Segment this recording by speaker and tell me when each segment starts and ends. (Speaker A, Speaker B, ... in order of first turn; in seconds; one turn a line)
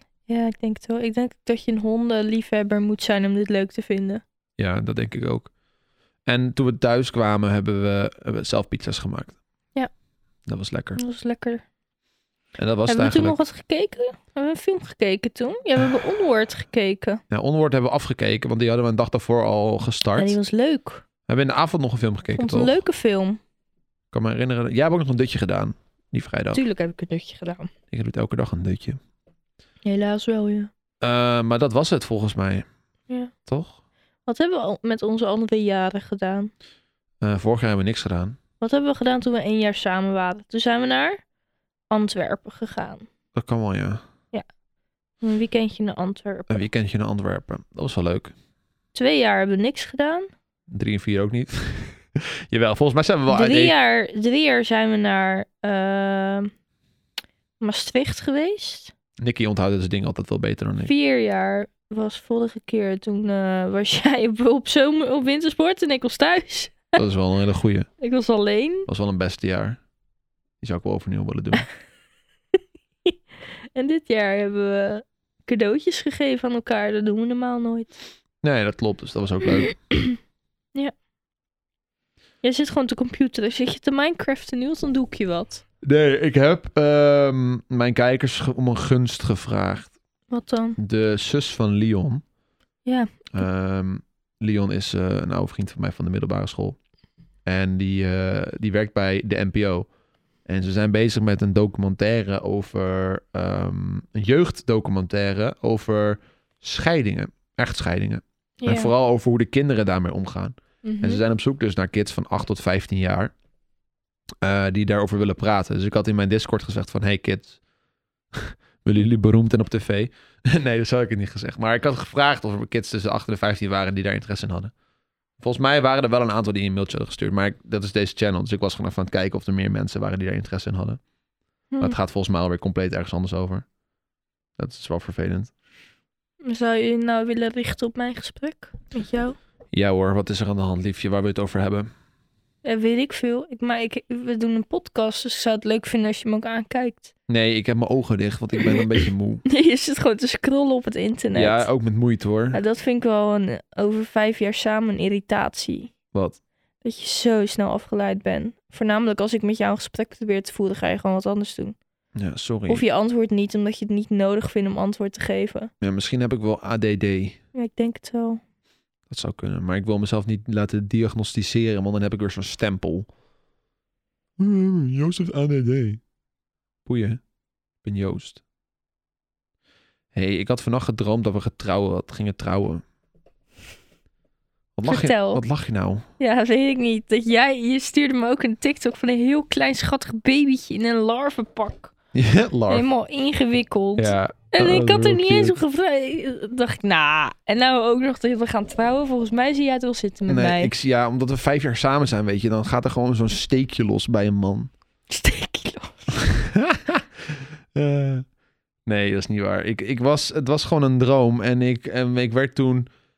Speaker A: 0.3-4.2
Speaker B: 4.6-5.5
Speaker B: 6.3-9.4
Speaker B: 10.5-11.0
Speaker A: 11.0-11.6
Speaker B: 12.6-13.4
Speaker A: 12.9-17.2
Speaker B: 17.3-20.4
Speaker A: 20.2-21.0
Speaker B: 21.3-22.8
Speaker A: 22.4-23.4
Speaker B: 24.1-26.6
Speaker A: 26.5-27.7
Speaker B: 27.9-29.0
Speaker A: 29.9-30.7
Speaker B: 31.0-32.7
Speaker B: 33.5-33.8
Speaker A: 34.3-36.5
Speaker B: 37.2-38.4
Speaker A: 38.6-41.2
Speaker A: 41.9-43.1
Speaker B: 43.4-44.0
Speaker A: 45.2-46.7
Speaker B: 46.5-48.3
Speaker A: 48.9-50.3
Speaker B: 50.7-53.7
Speaker A: 53.3-56.5
Speaker A: 57.6-58.9
Speaker B: 59.2-60.9
Speaker A: 60.8-67.0
Speaker B: 67.0-67.9
Speaker A: 68.0-68.9
Speaker B: 68.9-69.8
Speaker B: 70.6-71.7
Speaker A: 73.7-78.0
Speaker B: 78.4-79.7
Speaker A: 79.7-80.2
Speaker A: 82.4-85.6
Speaker B: 85.8-89.9
Speaker A: 90.3-90.8
Speaker B: 90.8-92.2
Speaker A: 92.8-93.4
Speaker B: 93.3-96.8
Speaker B: 97.5-99.9
Speaker B: 100.5-113.3
Speaker A: 108.6-108.9
Speaker A: 110.8-111.2
Speaker B: 114.4-117.6
Speaker B: 118.3-124.7
Speaker B: 125.4-131.0
Speaker A: 131.7-132.0
Speaker B: 131.8-133.7
Speaker B: 134.6-135.5
Speaker A: 136.4-139.4
Speaker B: 139.7-141.9
Speaker A: 142.6-147.1
Speaker B: 147.3-149.4
Speaker A: 149.5-151.7
Speaker B: 151.3-152.6
Speaker A: 152.5-155.9
Speaker B: 156.1-156.4
Speaker A: 156.8-161.8
Speaker B: 162.2-162.8
Speaker A: 162.7-165.7
Speaker B: 165.8-167.4
Speaker A: 167.5-168.4
Speaker B: 169.1-173.1
Speaker B: 174.4-176.0
Speaker B: 176.9-177.2
Speaker B: 177.8-178.4
Speaker B: 180.1-182.8
Speaker B: 184.8-186.1
Speaker A: 184.8-185.4
Speaker A: 186.2-191.9
Speaker B: 192.1-192.9
Speaker A: 192.7-200.7
Speaker B: 194.0-195.6
Speaker B: 200.3-204.7
Speaker A: 205.1-206.2
Speaker B: 206.1-208.2
Speaker B: 208.9-212.9